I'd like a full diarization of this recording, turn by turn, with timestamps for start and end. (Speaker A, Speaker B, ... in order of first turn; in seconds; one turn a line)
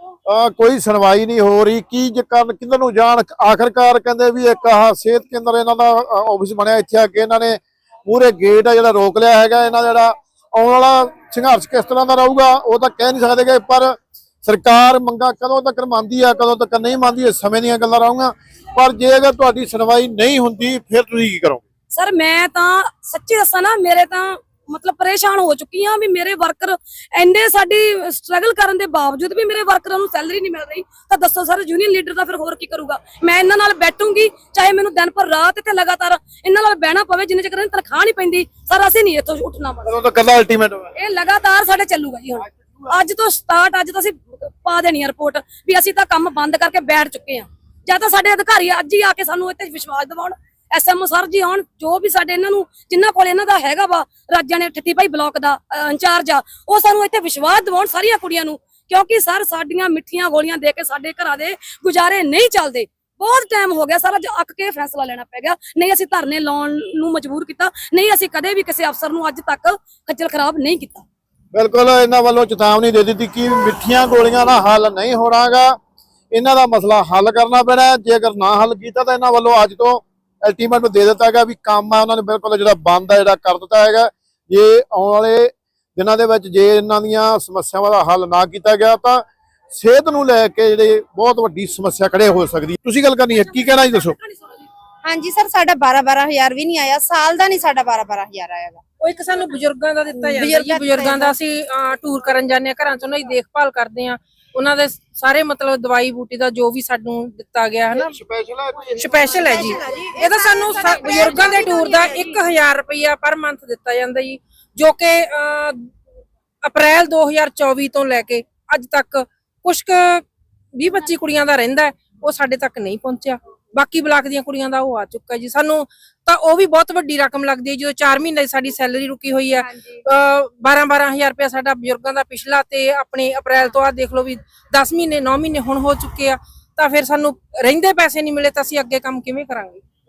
Speaker A: 0.2-21.6
Speaker B: 21.9-39.9
Speaker A: 39.8-40.9
Speaker B: 41.0-71.0
Speaker A: 42.5-42.9
Speaker A: 71.5-75.8
Speaker A: 76.3-94.2
Speaker B: 93.4-94.7
Speaker C: 95.0-98.8
Speaker D: 99.0-108.2
Speaker C: 100.2-101.3
Speaker A: 108.0-109.4
Speaker D: 109.0-115.9
Speaker C: 109.2-112.4
Speaker D: 116.6-139.8
Speaker C: 129.7-130.0